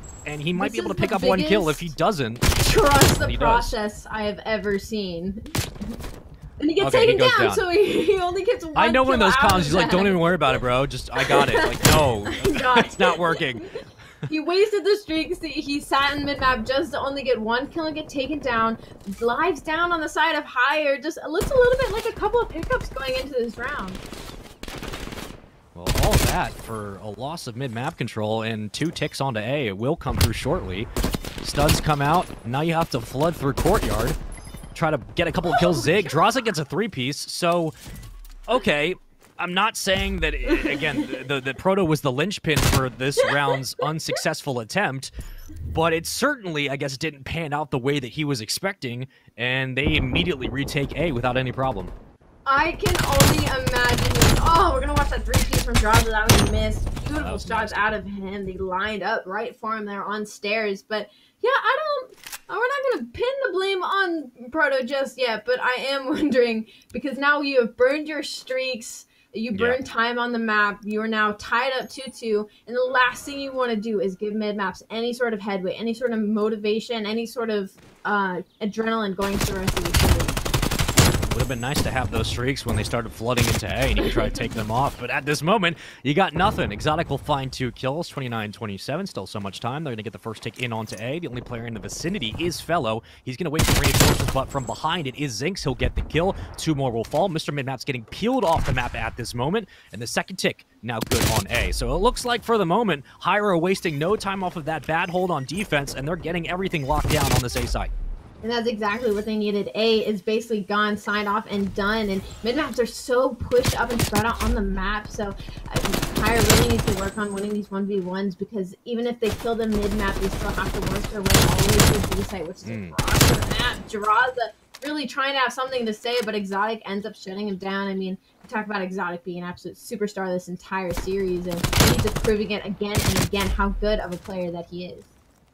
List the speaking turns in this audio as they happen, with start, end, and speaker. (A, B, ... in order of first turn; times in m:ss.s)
0:00.2-0:02.5 A
0:00.5-0:01.9 B
0:02.6-0:05.9 B
0:03.2-0:03.7 A
0:06.6-0:10.6 B
0:06.8-0:07.6 A
0:08.8-0:13.7 A
0:11.2-0:13.7 B
0:14.3-0:24.0 B
0:25.7-0:30.9 A
0:31.4-0:34.2 A
0:34.7-0:37.7 A
0:35.6-0:36.0 B
0:38.5-0:45.1 A
0:45.7-0:51.9 A
0:52.5-1:20.4 B
0:57.1-0:57.8 A
1:21.3-1:47.9 A
1:24.0-1:24.3 B
1:48.4-2:15.1 B
2:02.6-2:03.0 A